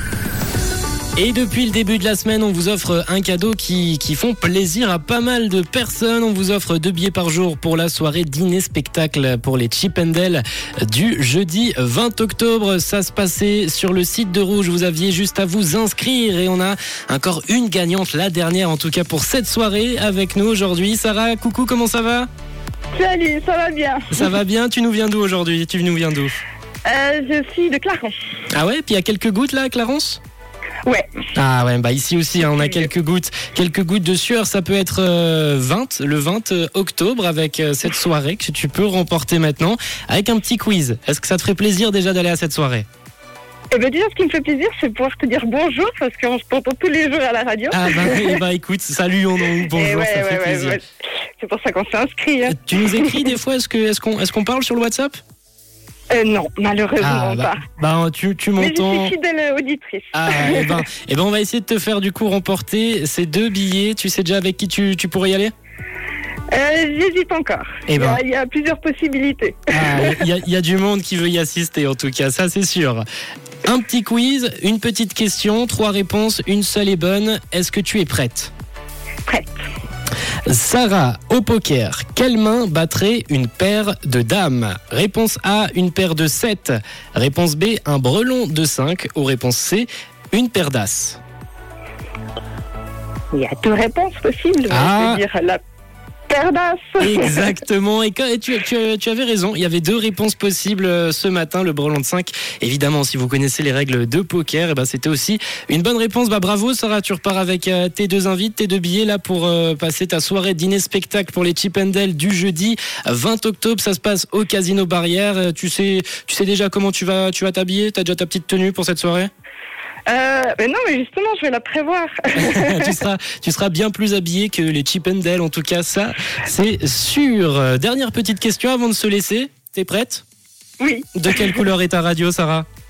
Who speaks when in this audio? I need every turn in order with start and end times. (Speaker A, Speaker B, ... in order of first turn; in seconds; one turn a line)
Speaker A: 1.2-22.3
Speaker B: 22.9-24.2
Speaker A: 24.1-26.4
Speaker B: 26.9-28.1
Speaker A: 28.5-30.2
Speaker B: 30.9-31.2
Speaker A: 31.3-42.9
Speaker B: 43.7-48.4
Speaker A: 47.7-50.8
Speaker B: 49.7-50.8
Speaker B: 51.4-53.2
Speaker A: 52.5-55.2
Speaker B: 56.1-57.6
Speaker A: 57.0-59.1
Speaker B: 58.6-60.8
Speaker A: 60.1-65.5
Speaker B: 66.5-70.2
Speaker A: 67.9-68.2
Speaker A: 69.7-73.0
Speaker A: 73.6-78.5
Speaker A: 80.5-91.2
Speaker B: 93.3-95.6
Speaker A: 94.7-95.2
Speaker B: 96.3-97.5
Speaker A: 97.0-119.3
Speaker B: 120.1-123.0
Speaker A: 122.3-130.2
Speaker B: 130.8-131.6
Speaker A: 131.1-132.7